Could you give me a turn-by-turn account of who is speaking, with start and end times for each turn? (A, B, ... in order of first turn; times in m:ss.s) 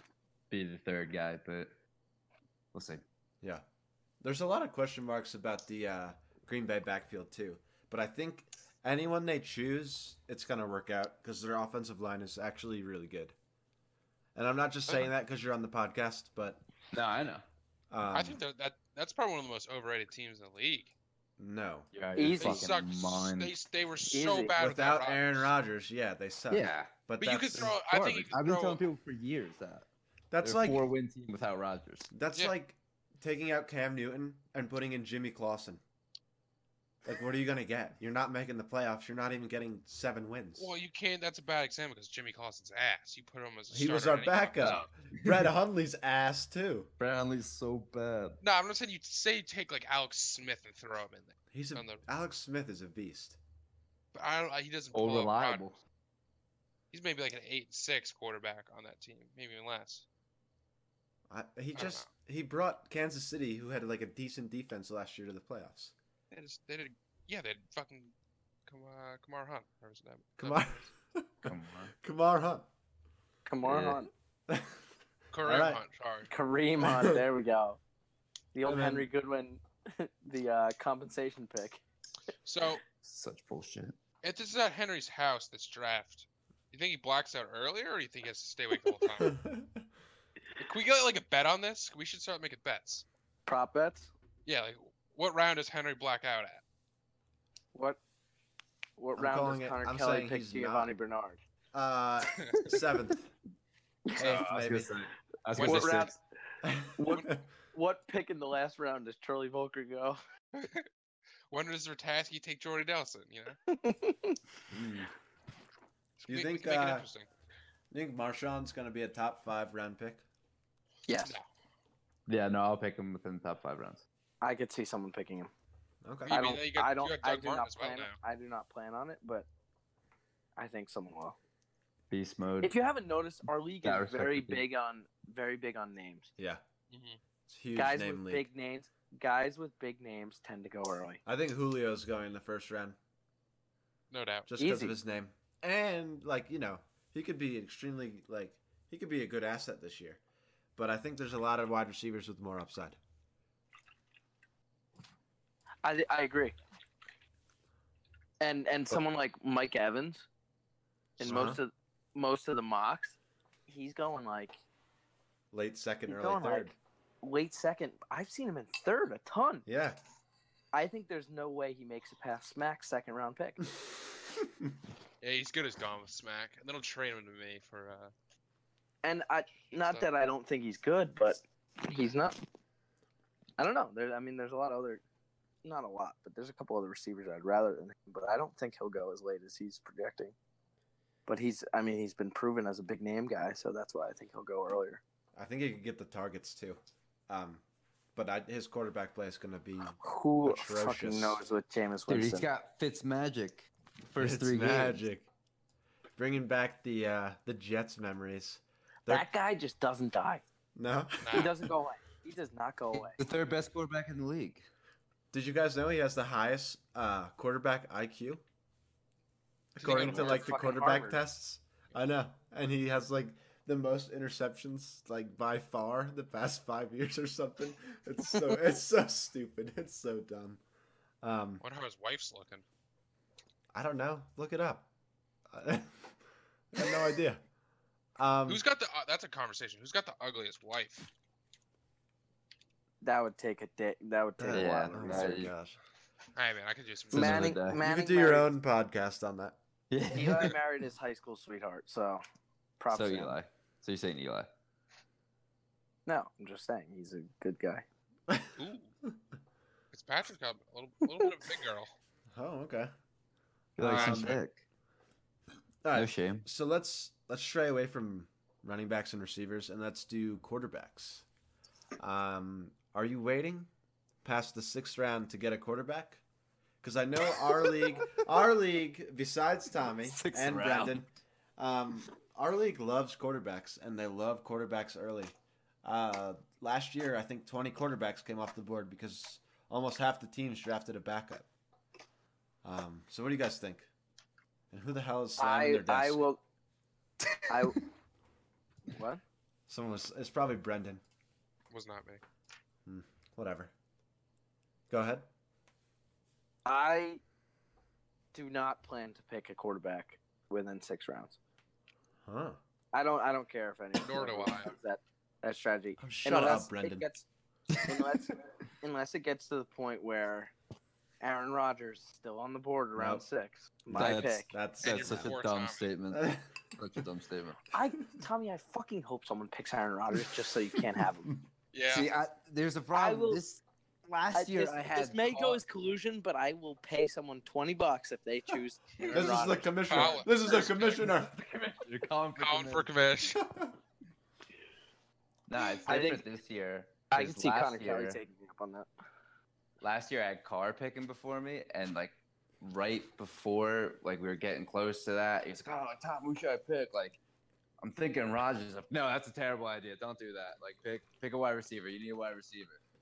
0:00.5-0:01.7 A
0:02.7-0:03.0 A
0:04.2-0:13.3 B
0:14.3-0:16.6 B
0:16.9-0:17.4 A
0:17.9-0:18.4 B
0:18.1-0:20.9 C
0:21.4-0:21.9 B
0:21.9-0:23.5 A
0:22.2-0:22.7 D
0:22.4-0:25.5 C
0:24.1-0:24.6 D
0:24.6-0:27.8 B
0:26.5-0:26.9 A
0:27.2-0:28.8 C
0:27.5-0:29.8 A
0:30.3-0:30.8 B
0:30.4-0:32.1 A
0:32.1-0:35.8 B
0:37.0-0:40.7 B
0:40.6-0:44.8 C
0:43.7-0:46.9 B
0:44.6-0:45.5 A
0:47.0-0:48.4 A
0:48.4-0:52.0 C
0:51.5-0:53.4 B
0:54.1-0:55.7 C
0:54.9-0:55.8 A
0:56.9-1:00.0 C
1:01.3-1:05.9 B
1:01.8-1:02.1 C
1:06.3-1:08.1 C
1:08.6-1:10.8 C
1:10.4-1:12.7 B
1:11.4-1:11.9 A
1:13.4-1:14.1 D
1:13.6-1:14.0 A
1:14.5-1:14.8 B
1:15.3-1:16.3 C
1:15.4-1:15.8 B
1:16.3-1:17.8 D
1:16.8-1:17.2 B
1:18.5-1:21.8 D
1:18.6-1:19.1 B
1:22.4-1:22.8 C
1:23.0-1:24.0 A
1:24.2-1:29.4 C
1:29.2-1:29.8 B
1:30.6-1:33.0 C
1:33.4-1:34.1 D
1:34.4-1:36.6 C
1:37.7-1:38.0 D
1:39.0-1:41.4 D
1:39.2-1:40.9 B
1:41.7-1:43.3 B
1:44.2-1:46.1 A
1:44.2-1:44.9 B
1:45.6-1:46.1 C
1:45.6-1:46.2 D
1:46.6-1:47.4 B
1:47.0-1:50.2 D
1:50.5-1:50.8 C
1:51.5-1:53.6 C
1:53.7-1:54.4 D
1:54.7-1:55.1 B
1:56.2-1:57.1 B
1:56.2-1:57.3 C
1:57.9-2:00.2 B
2:01.1-2:01.4 D
2:02.3-2:04.0 A
2:04.4-2:05.5 D
2:06.0-2:06.4 B
2:06.2-2:08.2 C
2:06.3-2:09.5 D
2:10.6-2:11.4 D
2:12.1-2:12.7 A
2:12.6-2:16.3 D
2:13.8-2:14.6 A
2:16.4-2:16.6 B
2:16.9-2:17.2 C
2:17.5-2:18.4 B
2:17.8-2:21.2 D
2:21.2-2:23.0 B
2:24.1-2:24.5 C
2:24.5-2:30.2 B
2:24.6-2:25.0 D
2:30.8-2:33.0 B
2:35.8-2:36.6 D
2:38.4-2:40.2 D
2:41.2-2:44.6 D
2:41.2-2:41.6 B
2:45.5-2:46.7 B
2:46.0-2:49.6 D
2:49.6-2:50.0 B
2:50.7-2:53.6 D
2:54.4-2:54.7 B
2:55.2-2:58.1 C
2:59.0-3:02.4 D
2:59.7-3:00.1 C
3:03.6-3:05.0 D
3:05.6-3:10.3 D
3:11.3-3:15.0 D
3:15.4-3:17.6 B
3:18.2-3:21.4 B
3:20.0-3:22.5 D
3:22.1-3:25.0 A
3:24.2-3:25.3 B
3:26.2-3:29.2 B
3:29.1-3:30.4 D
3:30.8-3:31.7 B
3:31.2-3:31.5 C
3:31.3-3:33.2 D
3:32.9-3:34.7 A
3:35.3-3:38.4 B
3:39.7-3:50.6 B
3:39.8-3:40.5 C
3:39.9-3:41.2 D
3:51.2-3:51.6 B
3:51.6-3:52.6 C
3:53.7-3:54.9 B
3:55.5-3:56.1 B
3:56.7-3:57.4 B
3:58.2-3:58.6 B
3:58.5-4:01.1 C
4:03.0-4:05.4 D
4:04.4-4:05.8 B
4:04.5-4:05.5 A
4:06.3-4:07.5 C
4:07.1-4:07.8 A
4:07.1-4:08.5 D
4:07.8-4:09.6 B
4:09.9-4:10.6 A
4:10.1-4:12.2 D
4:12.8-4:13.3 D
4:12.9-4:14.5 A
4:16.0-4:17.8 D
4:18.6-4:18.9 C
4:19.9-4:21.9 C
4:22.3-4:22.9 B
4:23.8-4:24.6 A
4:23.8-4:24.4 B
4:23.8-4:24.4 C
4:25.8-4:31.2 B
4:25.9-4:26.4 A
4:32.0-4:33.7 B
4:34.2-4:36.2 B
4:36.8-4:51.5 B
4:40.0-4:41.0 A
4:52.6-4:53.9 B
4:54.7-4:56.2 B
4:55.4-4:56.4 D
4:57.5-4:57.8 D
4:58.9-4:59.2 D
4:59.7-5:01.0 B
5:01.7-5:02.2 C
5:02.8-5:03.7 B
5:04.9-5:05.3 B
5:06.6-5:07.2 D
5:08.3-5:11.4 D
5:12.2-5:12.6 B
5:12.9-5:17.3 D
5:14.0-5:14.7 C
5:16.0-5:17.0 B
5:17.7-5:18.1 A
5:17.8-5:20.5 D
5:21.2-5:24.5 D
5:23.0-5:23.2 B
5:23.9-5:25.3 B
5:23.9-5:27.6 A
5:24.8-5:25.9 C
5:26.1-5:26.5 B
5:27.7-5:31.3 D
5:31.7-5:32.1 C
5:31.9-5:35.6 A
5:32.9-5:33.4 D
5:34.3-5:40.5 D
5:39.1-5:41.3 B
5:39.8-5:41.0 C
5:41.0-5:42.9 A
5:42.4-5:43.4 C
5:43.4-5:43.7 B
5:45.5-5:48.2 A
5:45.8-5:46.2 D
5:47.1-5:48.9 D
5:49.8-5:57.2 A
5:57.8-6:02.8 A